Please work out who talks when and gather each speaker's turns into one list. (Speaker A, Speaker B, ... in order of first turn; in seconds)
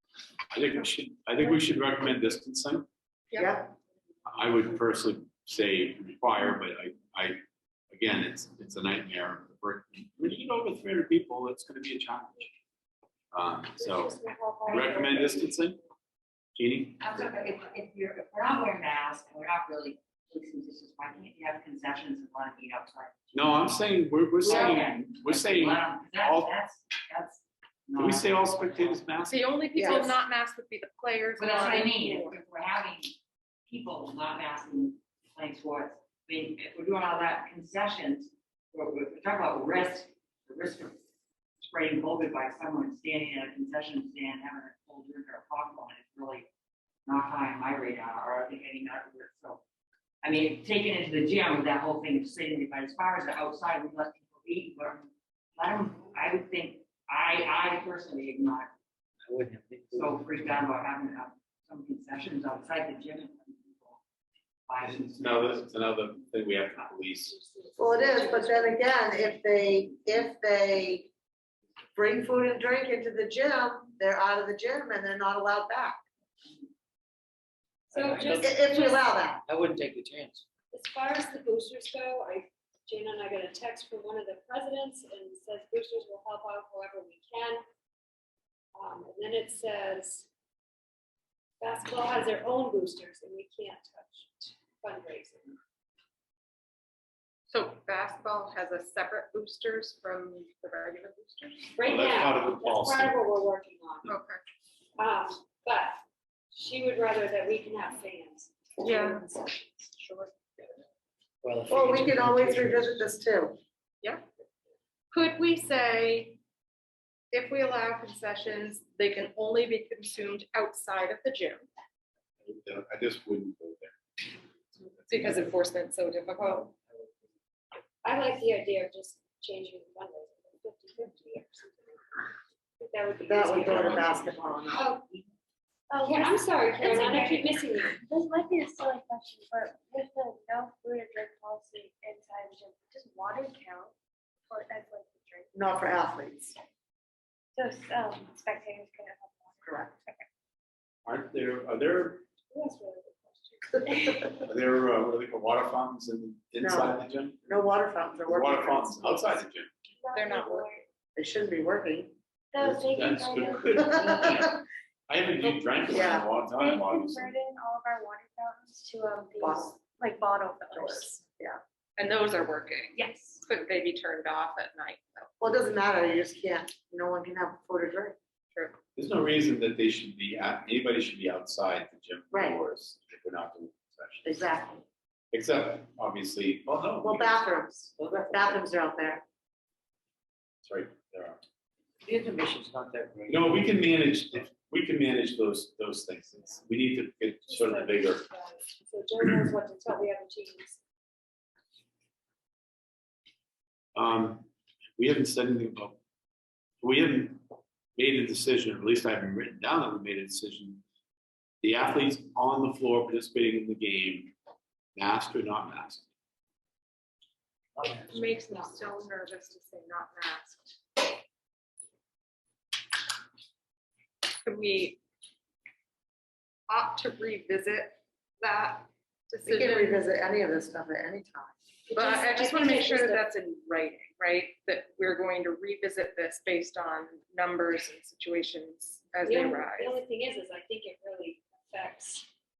Speaker A: 0.5-2.9, 4.3-7.4, 7.9-12.5, 13.3-15.8, 16.6-17.1, 23.3-26.5, 28.0-29.4, 65.0-67.3, 101.8-103.1, 122.4-124.0, 124.8-125.3, 151.1-152.2, 154.4-157.4, 158.3-159.7, 162.6-167.3, 178.9-184.4, 185.3-187.5, 190.7-191.4, 193.3-198.2, 203.9-204.5, 205.0-206.0, 206.8-207.4, 208.0-210.8, 211.6-214.3, 214.9-216.1
Speaker B: 3.3-3.6, 24.4-24.8, 29.3-32.4, 97.5-101.8, 104.0-104.4, 108.8-109.2, 109.9-110.3, 115.1-116.4, 117.3-121.6, 125.1-126.7, 160.1-160.7, 172.0-175.3, 218.1-220.8, 224.4-225.0, 226.7-230.0, 231.9-240.0
Speaker C: 3.4-3.7, 29.7-30.2, 67.8-71.1, 71.9-76.0, 78.3-79.4, 111.7-113.6, 133.2-135.0, 145.5-146.6, 149.6-149.9, 153.8-154.3, 156.6-159.4, 161.2-162.1, 163.8-164.4, 165.9-166.3, 169.4-169.7, 170.8-171.6, 175.4-178.2, 182.3-182.6, 184.2-184.8, 187.0-189.2, 229.4-231.5
Speaker D: 13.7-15.6, 67.4-68.8, 77.9-79.3, 80.7-87.6, 88.7-90.3, 91.6-95.6, 101.8-104.1, 105.0-109.9, 128.0-135.0, 136.0-137.9, 152.5-153.7, 197.4-200.8, 231.9-233.2, 239.2-242.3
Speaker E: 17.0-23.5, 24.4-29.0, 31.4-33.1, 33.7-41.0, 41.6-46.5, 47.0-49.6, 50.2-58.7, 59.9-64.0, 64.7-65.6
Speaker F: 59.3-60.5, 77.9-78.6, 79.5-80.4, 111.4-113.1, 188.0-188.5, 192.0-193.6, 217.8-218.7
Speaker G: 135.9-143.9, 144.5-145.6, 147.6-150.3, 160.0-160.8, 162.5-164.5, 165.7-171.2, 172.9-173.3